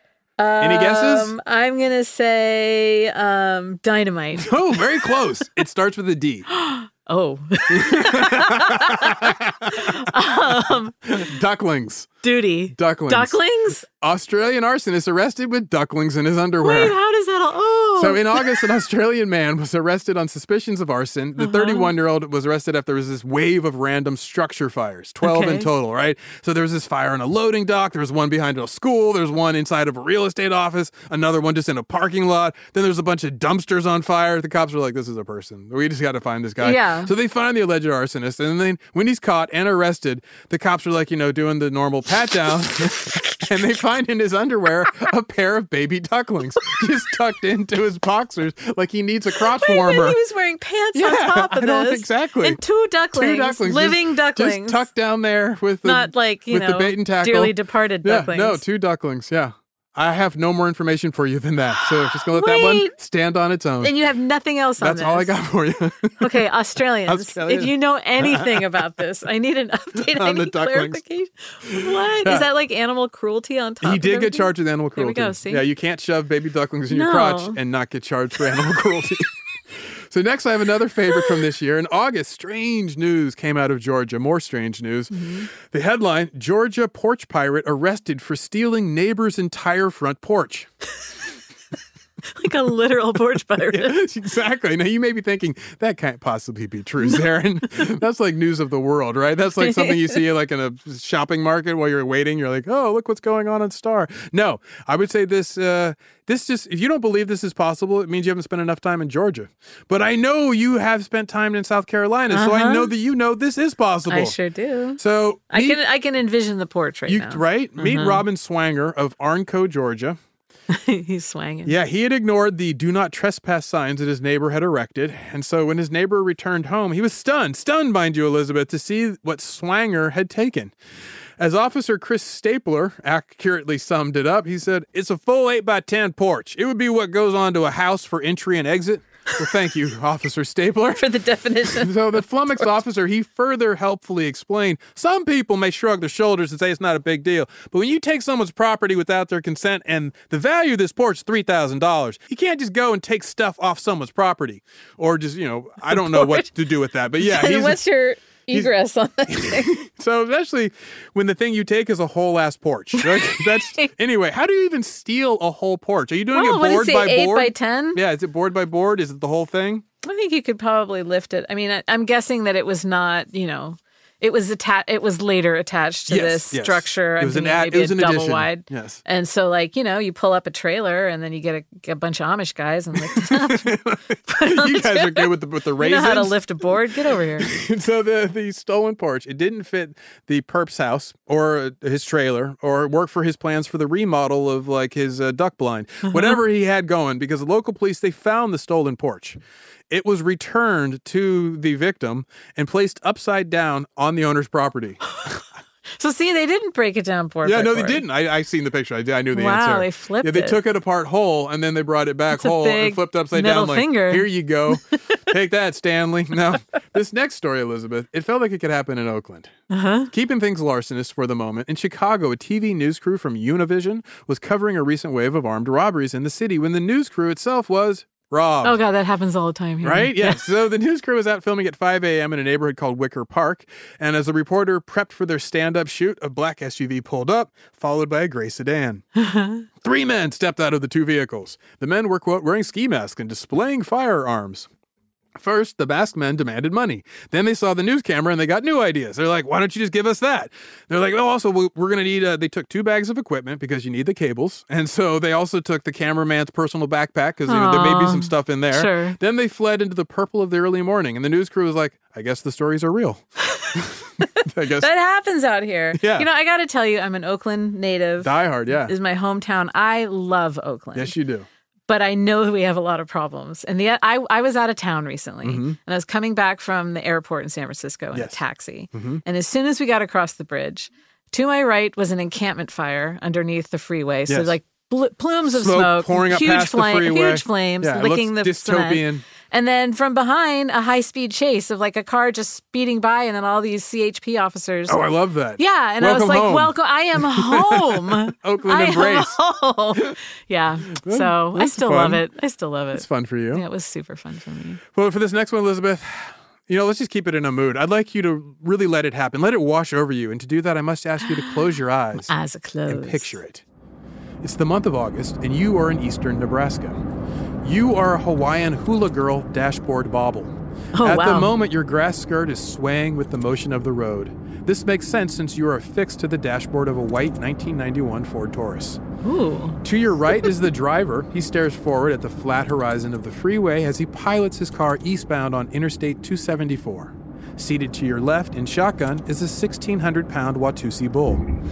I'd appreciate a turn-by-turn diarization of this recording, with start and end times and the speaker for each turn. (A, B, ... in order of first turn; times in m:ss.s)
0:00.4-0:04.5 A
0:00.6-0:01.3 B
0:04.4-0:06.5 B
0:06.5-0:11.3 A
0:07.7-0:10.0 B
0:10.5-0:12.2 B
0:12.2-0:13.8 A
0:12.7-0:17.0 B
0:16.6-0:18.6 A
0:18.0-0:50.2 B
0:21.4-0:21.9 A
0:25.2-0:25.7 A
0:36.6-0:37.1 A
0:49.4-0:54.9 A
0:50.9-0:52.6 B
0:53.1-1:03.9 B
0:55.8-0:58.6 A
1:02.2-1:02.9 A
1:03.8-1:05.3 A
1:04.8-1:06.4 B
1:06.2-1:15.6 A
1:07.1-1:08.8 B
1:10.0-1:11.0 B
1:11.7-1:12.5 B
1:13.8-1:19.3 B
1:16.9-1:17.6 A
1:20.1-1:30.7 B
1:25.1-1:25.5 A
1:32.4-1:34.0 A
1:33.7-1:54.4 B
1:39.6-1:40.2 A
1:52.3-1:52.9 A
1:54.1-1:58.2 A
1:55.0-1:55.8 B
1:57.1-2:00.2 B
2:00.7-2:01.7 A
2:01.7-2:10.7 B
2:11.4-2:21.0 B
2:21.0-2:22.0 A
2:21.6-2:37.8 B
2:35.9-2:36.5 A
2:37.2-2:39.7 A
2:39.3-2:49.8 B
2:43.0-2:43.9 A
2:46.3-2:48.0 A
2:50.0-3:07.5 A
2:56.1-2:59.0 B
3:03.0-3:06.8 B
3:07.4-3:19.4 B
3:16.1-3:16.4 A
3:19.9-3:25.1 B
3:26.0-3:28.0 A
3:27.4-3:39.5 B
3:29.3-3:30.6 A
3:32.3-3:35.0 A
3:39.7-3:40.1 A
3:40.1-3:48.8 B
3:48.6-3:50.4 A
3:49.8-3:59.0 B
3:59.2-3:59.7 A
3:59.8-4:04.7 B
4:05.4-4:23.2 B
4:17.5-4:19.2 A
4:23.8-4:24.9 B
4:24.8-4:31.2 A
4:26.0-4:26.3 B
4:28.2-4:28.9 B
4:31.0-4:31.5 B
4:31.9-4:55.0 A
4:35.4-4:35.8 B
4:38.1-4:38.4 B
4:38.9-4:39.2 B
4:44.3-4:44.6 B
4:45.5-4:49.2 B
4:54.9-4:59.4 B
4:55.6-5:04.8 A
5:01.0-5:02.2 B
5:02.9-5:03.6 B
5:04.9-5:12.3 B
5:12.3-5:13.4 A
5:12.9-5:13.6 B
5:14.4-5:17.0 B
5:17.6-5:29.0 B
5:21.0-5:21.5 A
5:29.2-5:29.8 A
5:29.8-5:41.4 B